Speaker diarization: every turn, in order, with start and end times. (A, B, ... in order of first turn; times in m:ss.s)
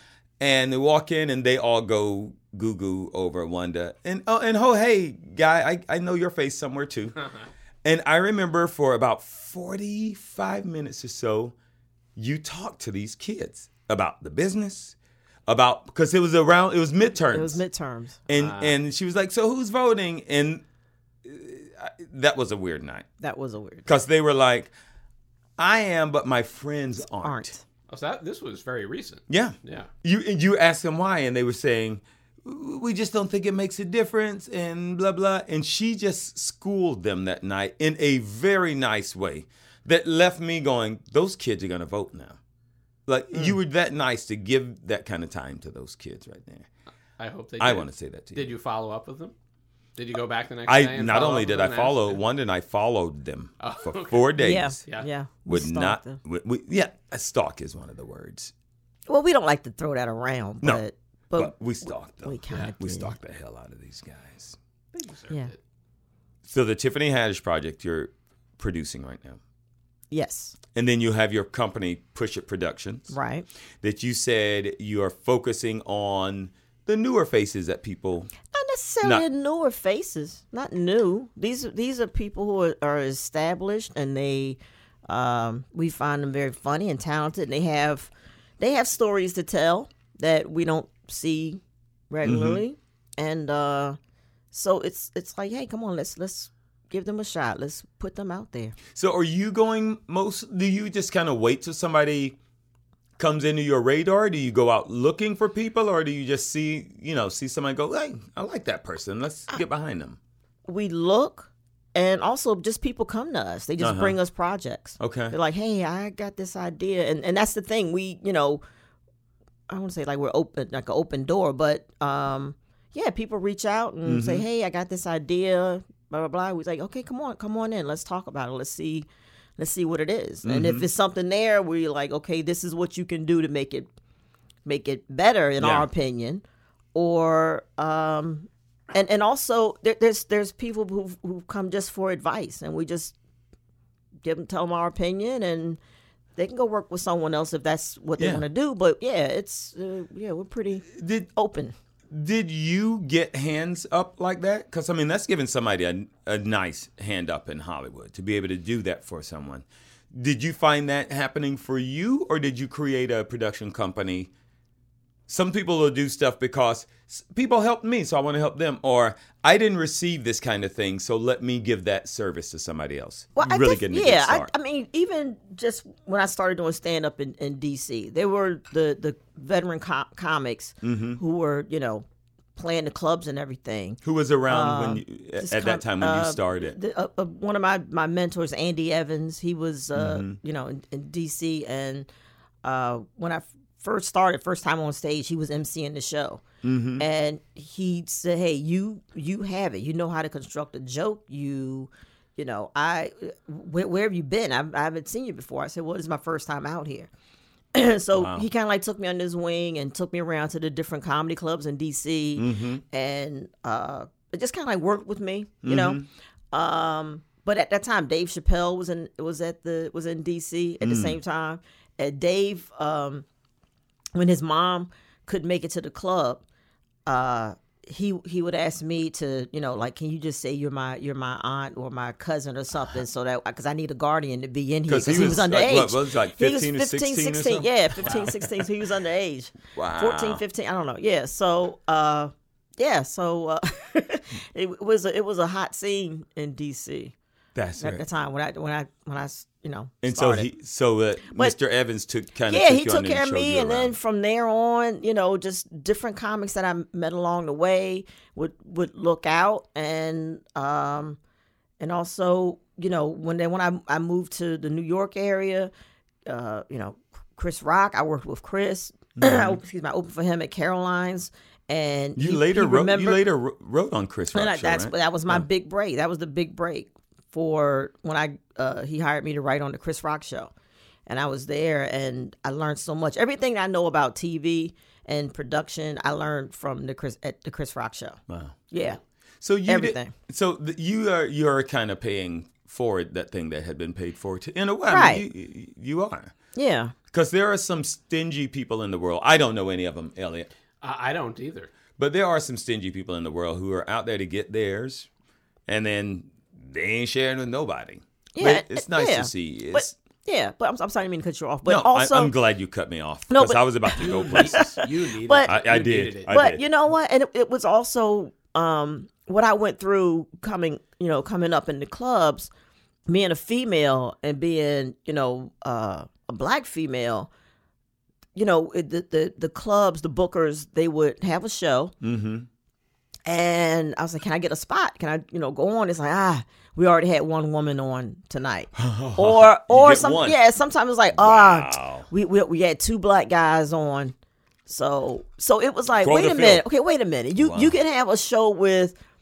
0:00.4-0:07.2 A
0:07.8-0:11.5 A
0:12.2-0:14.9 A
0:15.5-0:17.6 A
0:17.3-0:18.2 B
0:18.3-0:20.6 A
0:18.3-0:18.7 C
0:21.2-0:23.0 A
0:23.2-0:23.9 B
0:23.8-0:24.7 A
0:25.6-0:27.5 A
0:27.2-0:27.6 B
0:27.9-0:29.9 C
0:29.3-0:42.4 A
0:43.1-0:46.7 A
0:47.2-0:49.3 C
0:47.6-0:48.5 A
0:50.0-0:52.2 C
0:50.7-0:54.8 A
0:53.6-0:54.4 C
0:54.4-0:56.2 B
0:55.5-0:58.5 A
0:59.1-1:01.5 B
1:01.4-1:04.6 A
1:02.2-1:03.1 B
1:04.9-1:05.6 C
1:06.4-1:09.4 A
1:10.1-1:10.5 B
1:10.7-1:13.2 A
1:13.1-1:13.4 B
1:13.8-1:18.3 A
1:18.5-1:34.0 B
1:32.2-1:32.6 A
1:34.5-1:38.8 B
1:38.9-1:42.4 A
1:43.2-1:50.2 A
1:50.7-1:58.6 B
1:53.8-1:54.2 A
1:55.0-1:55.3 A
1:59.7-2:09.0 B
2:04.0-2:04.4 A
2:09.6-2:13.9 B
2:10.4-2:10.8 A
2:14.6-2:16.4 B
2:15.6-2:15.9 A
2:16.9-2:23.2 B
2:24.2-2:25.8 B
2:26.4-2:31.7 B
2:28.2-2:28.4 A
2:30.9-2:31.3 A
2:32.1-2:44.3 A
2:45.3-2:54.5 A
2:53.4-3:12.1 B
3:00.8-3:01.2 A
3:04.0-3:06.8 A
3:09.9-3:10.4 A
3:12.6-3:16.4 B
3:16.6-3:17.0 A
3:17.0-3:27.1 B
3:27.7-3:36.0 B
3:28.1-3:28.4 A
3:32.4-3:32.8 A
3:35.6-3:36.1 A
3:36.5-3:43.2 B
3:40.8-3:41.2 A
3:44.1-3:46.4 B
3:47.0-4:07.1 B
3:54.9-3:58.6 A
3:59.7-4:00.4 A
4:07.5-4:08.0 A
4:07.8-4:10.5 B
4:10.0-4:13.9 A
4:12.5-4:21.2 B
4:21.8-4:25.7 B
4:26.3-4:33.2 B
4:29.2-4:29.6 A
4:32.2-4:35.4 A
4:34.3-4:40.5 B
4:41.1-4:48.2 B
4:48.3-4:48.6 A
4:48.7-4:49.0 B
4:49.4-4:56.3 A
4:49.7-4:50.1 B
4:54.9-4:55.2 B
4:56.5-4:56.9 B
4:57.1-5:00.5 A
5:00.8-5:01.7 C
5:02.0-5:05.1 A
5:05.7-5:09.9 A
5:08.3-5:12.3 B
5:11.6-5:14.8 A
5:13.3-5:15.6 B
5:14.0-5:16.3 C
5:15.4-5:16.6 A
5:16.3-5:22.5 B
5:23.1-5:27.3 B
5:28.3-5:31.9 B
5:32.0-5:32.5 A
5:33.3-5:44.1 B
5:38.7-5:40.4 A
5:41.1-5:42.1 A
5:44.7-5:48.9 B
5:46.0-5:46.6 A
5:47.4-5:47.8 A